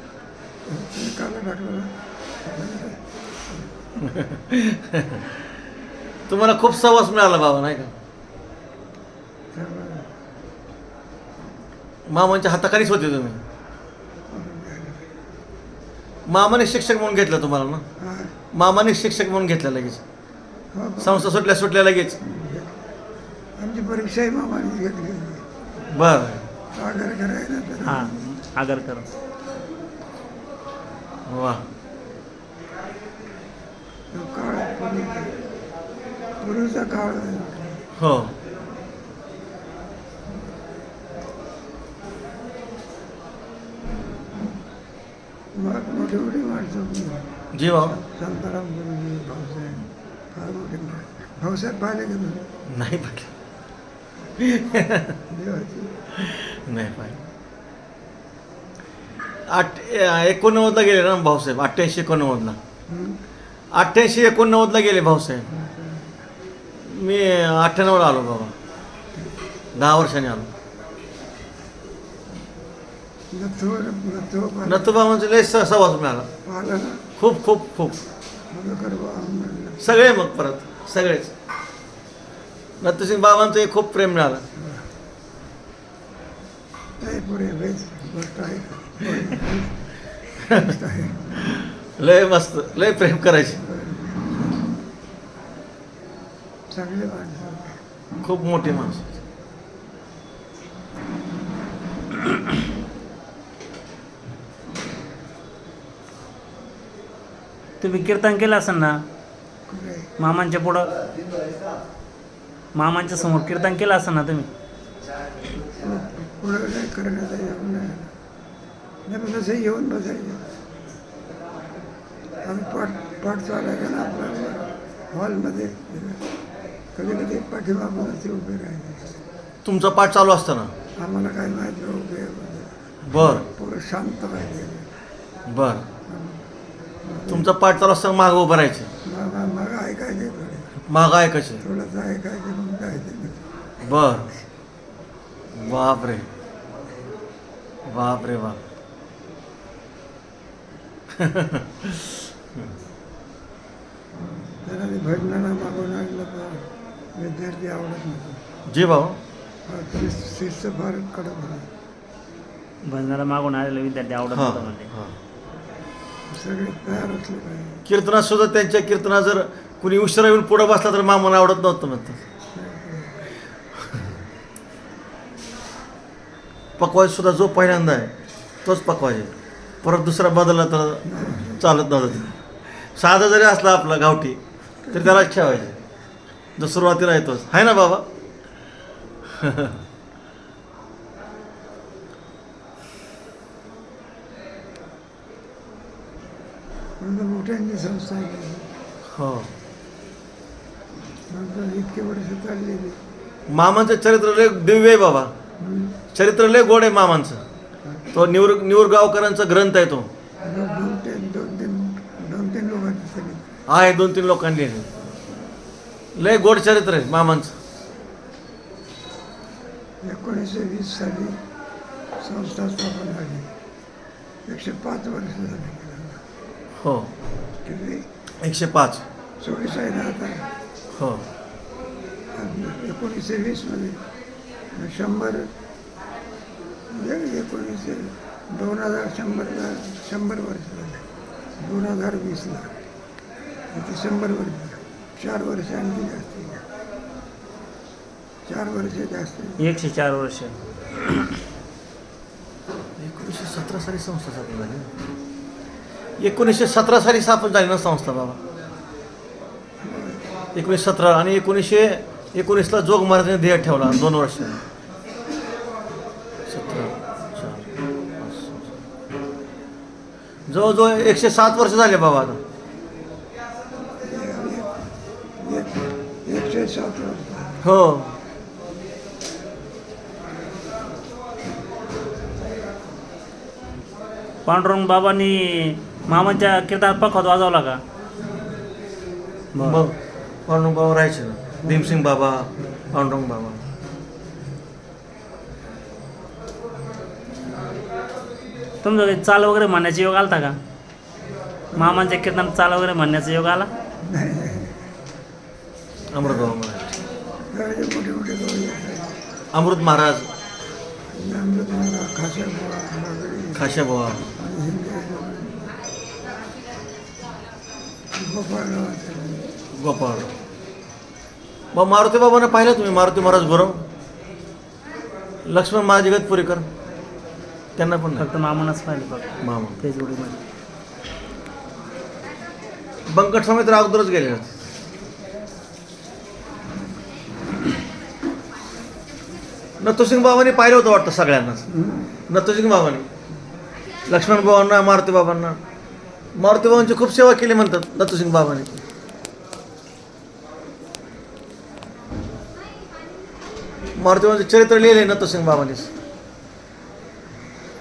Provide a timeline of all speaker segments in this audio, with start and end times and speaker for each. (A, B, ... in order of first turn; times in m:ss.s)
0:00.6-0:03.8 A
0:04.0-0:05.3 B
0:06.3-0:07.9 B
0:09.5-0:10.1 A
0:12.1-0:13.4 B
0:14.3-0:15.0 A
0:16.3-0:17.8 B
0:18.0-0:18.3 A
0:18.5-0:20.0 B
0:20.7-0:21.3 A
0:21.0-0:22.2 B
0:22.2-0:22.8 A
0:23.6-0:25.4 A
0:25.9-0:26.4 B
0:26.7-0:28.2 A
0:27.8-0:29.1 C
0:31.3-0:31.6 B
0:34.1-0:35.3 A
0:36.4-0:37.8 A
0:38.0-0:38.3 B
0:45.5-0:52.5 A
0:47.5-0:48.0 B
0:52.7-0:53.3 B
0:54.4-0:55.2 B
0:55.3-0:55.9 A
0:56.2-0:57.2 B
0:59.5-1:02.6 B
1:02.9-1:03.2 A
1:03.7-1:05.5 B
1:05.5-1:06.2 A
1:06.8-1:08.5 B
1:09.8-1:10.5 B
1:13.3-1:15.0 A
1:14.6-1:16.3 B
1:16.4-1:17.0 A
1:17.2-1:18.0 B
1:18.5-1:19.8 A
1:19.8-1:21.3 B
1:22.8-1:24.4 B
1:24.6-1:24.9 A
1:27.0-1:29.8 A
1:30.5-1:31.4 A
1:32.0-1:33.6 B
1:33.6-1:34.6 A
1:36.7-1:37.8 A
1:38.2-1:39.1 B
1:47.8-1:48.9 C
1:49.7-1:50.1 A
1:50.2-1:50.9 C
1:52.7-1:54.5 C
1:55.8-1:58.1 A
1:59.0-2:00.5 A
2:02.4-2:06.2 A
2:06.9-2:09.2 A
2:09.6-2:10.7 B
2:11.0-2:14.9 A
2:13.0-2:13.4 B
2:15.5-2:15.8 B
2:16.1-2:16.4 A
2:17.0-2:17.5 A
2:17.3-2:18.9 B
2:19.0-2:20.7 A
2:20.9-2:21.6 B
2:21.6-2:23.4 A
2:23.8-2:24.3 B
2:25.5-2:26.3 B
2:27.9-2:28.6 B
2:31.2-2:32.6 B
2:34.6-2:38.4 A
2:38.7-2:39.2 B
2:39.7-2:41.7 A
2:42.8-2:44.9 C
2:44.3-2:45.1 B
2:46.3-2:47.8 A
2:47.8-2:52.2 B
2:52.5-2:53.2 A
2:56.8-2:58.1 B
2:58.6-2:59.3 B
2:59.8-3:02.3 B
3:01.0-3:01.6 A
3:02.9-3:05.8 B
3:06.6-3:08.0 B
3:09.4-3:09.7 B
3:17.0-3:18.7 A
3:19.1-3:19.5 B
3:21.3-3:23.0 A
3:23.5-3:25.3 B
3:25.6-3:26.0 A
3:26.1-3:27.4 B
3:27.8-3:28.2 A
3:28.1-3:30.1 B
3:30.4-3:33.5 A
3:33.7-3:34.9 B
3:36.2-3:37.5 B
3:40.0-3:41.4 A
3:42.2-3:43.5 A
3:44.4-3:46.2 A
3:46.8-3:47.1 B
3:47.6-3:48.0 A
3:48.4-3:49.0 B
3:49.4-3:50.4 A
3:50.9-3:51.2 B
3:52.3-3:54.0 A
3:54.8-3:55.5 A
3:56.9-4:01.0 A
4:01.6-4:02.7 A
4:03.7-4:06.6 A
4:08.4-4:09.6 A
4:09.6-4:11.1 C
4:13.0-4:14.9 B
4:16.2-4:18.4 B
4:19.8-4:20.2 A
4:20.5-4:24.6 B
4:26.5-4:27.7 B
4:28.2-4:28.7 B
4:30.5-4:32.4 B
4:34.0-4:34.8 A
4:35.4-4:37.6 A
4:37.6-4:38.1 B
4:44.4-4:47.8 C
4:49.5-4:49.8 C
4:49.6-4:53.6 B
4:51.6-4:52.0 A
4:58.8-5:00.6 C
5:01.7-5:02.0 A
5:01.7-5:03.7 C
5:04.0-5:04.7 A
5:06.1-5:07.0 B
5:06.2-5:06.6 A
5:07.5-5:09.2 A
5:09.5-5:10.3 B
5:11.1-5:13.7 A
5:13.5-5:14.3 B
5:14.3-5:15.7 A
5:18.1-5:19.5 A
5:19.7-5:20.3 B
5:21.7-5:23.8 B
5:25.4-5:26.7 B
5:27.8-5:28.2 B
5:28.2-5:30.4 C
5:29.4-5:29.8 B
5:33.1-5:34.5 B
5:39.8-5:41.6 B
5:41.7-5:42.1 A
5:42.3-5:43.1 B
5:44.1-5:45.6 B
5:46.4-5:48.8 B
5:54.0-5:55.9 B